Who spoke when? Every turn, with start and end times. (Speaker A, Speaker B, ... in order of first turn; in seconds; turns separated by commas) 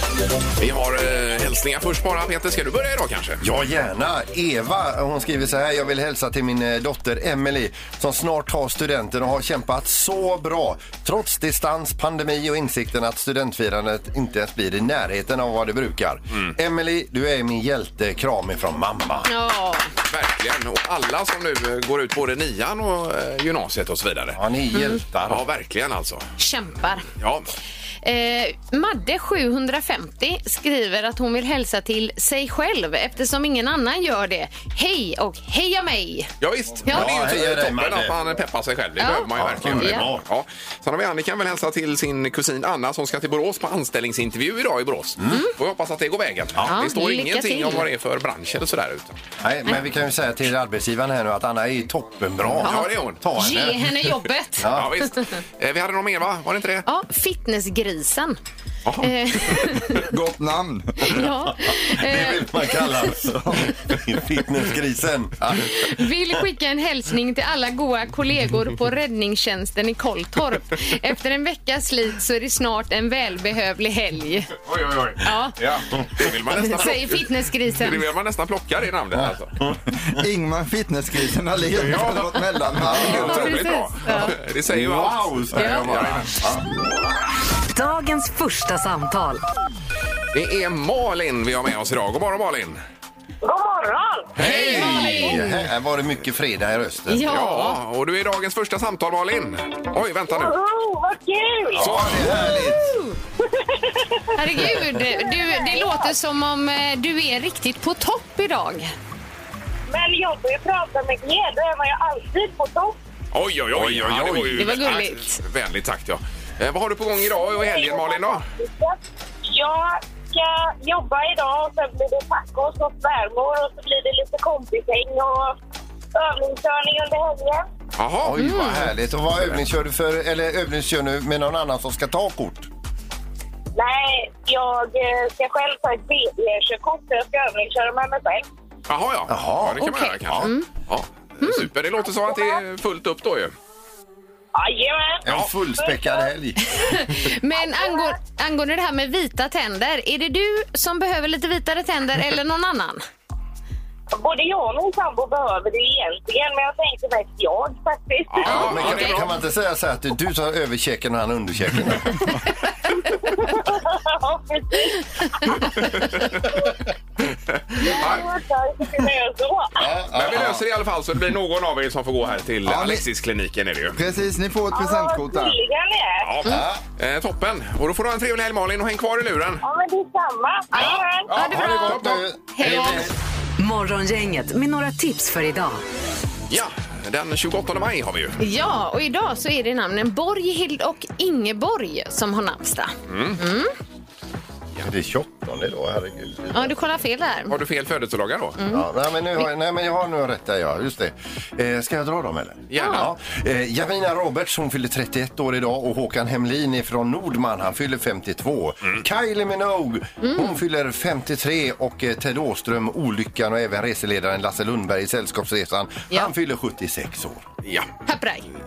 Speaker A: 0.6-3.4, Speaker B: 3.4-19.3, Speaker C: 19.2-19.9, Speaker A: 20.0-24.4, Speaker B: 24.4-25.4, Speaker C: 24.7-25.0, Speaker A: 25.3-26.3, Speaker C: 26.4-27.1, Speaker A: 27.2-27.5, Speaker C: 28.0-36.3, Speaker A: 36.4-49.2, Speaker C: 36.8-37.1, Speaker B: 36.9-38.2, Speaker C: 39.0-40.1, Speaker B: 39.4-40.2, Speaker B: 45.2-45.5, Speaker C: 46.7-47.8, Speaker B: 49.4-54.0, Speaker A: 52.5-53.2, Speaker C: 52.6-55.4, Speaker B: 54.6-55.0, Speaker A: 54.6-56.9, Speaker C: 56.9-58.4, Speaker A: 58.9-59.6, Speaker C: 59.0-60.0, Speaker D: 60.1-61.2, Speaker C: 61.0-62.9, Speaker B: 61.6-66.1, Speaker C: 65.6-74.5, Speaker A: 74.6-79.5, Speaker C: 75.2-75.7, Speaker C: 76.5-78.1, Speaker B: 79.1-80.2, Speaker D: 80.1-83.6, Speaker A: 81.7-86.4, Speaker B: 83.0-83.4, Speaker C: 83.1-84.3, Speaker B: 84.7-86.6, Speaker C: 85.5-85.9, Speaker E: 87.7-89.4, Speaker A: 90.3-92.8, Speaker F: 93.4-95.3, Speaker C: 94.4-95.7, Speaker B: 94.4-97.2, Speaker A: 94.4-95.4, Speaker C: 97.1-97.8, Speaker A: 97.3-100.5, Speaker F: 100.3-101.9, Speaker A: 101.7-102.6, Speaker B: 101.7-103.0, Speaker C: 102.3-103.2, Speaker F: 103.6-104.2, Speaker C: 104.3-108.9, Speaker F: 105.1-106.1, Speaker F: 109.9-113.0, Speaker A: 113.3-118.5, Speaker B: 113.7-114.8, Speaker C: 114.6-115.4, Speaker F: 117.2-125.5, Speaker F: 126.1-127.6, Speaker A: 128.0-129.6, Speaker B: 128.2-132.7, Speaker C: 128.4-128.9, Speaker F: 133.8-138.4, Speaker A: 138.9-143.5, Speaker B: 139.3-140.5, Speaker C: 139.8-140.7, Speaker C: 141.4-141.7, Speaker F: 142.2-142.6, Speaker F: 144.5-145.2, Speaker B: 145.2-147.2, Speaker F: 145.8-146.3, Speaker C: 146.7-153.0, Speaker F: 147.5-148.2, Speaker F: 154.1-158.6, Speaker A: 158.3-159.4, Speaker B: 158.4-162.4, Speaker C: 158.4-159.2, Speaker F: 163.0-165.7, Speaker C: 165.5-165.8, Speaker A: 165.7-166.4, Speaker A: 167.3-168.3, Speaker F: 167.8-170.0, Speaker B: 169.8-170.6, Speaker A: 170.1-174.0, Speaker D: 172.6-173.0, Speaker D: 173.9-175.6, Speaker F: 174.7-176.3, Speaker A: 176.2-179.6, Speaker B: 176.4-176.8, Speaker F: 179.6-181.4, Speaker C: 180.7-183.1, Speaker B: 181.3-183.1, Speaker A: 181.8-182.2, Speaker E: 183.6-185.8, Speaker A: 186.5-188.4, Speaker C: 188.4-193.7, Speaker A: 193.1-193.4, Speaker B: 194.8-196.7, Speaker C: 196.5-197.5, Speaker A: 197.5-198.6, Speaker C: 198.6-199.5, Speaker B: 198.7-217.4, Speaker A: 202.7-203.1, Speaker C: 202.8-203.1, Speaker C: 210.2-210.6, Speaker A: 217.6-217.9, Speaker C: 218.1-218.5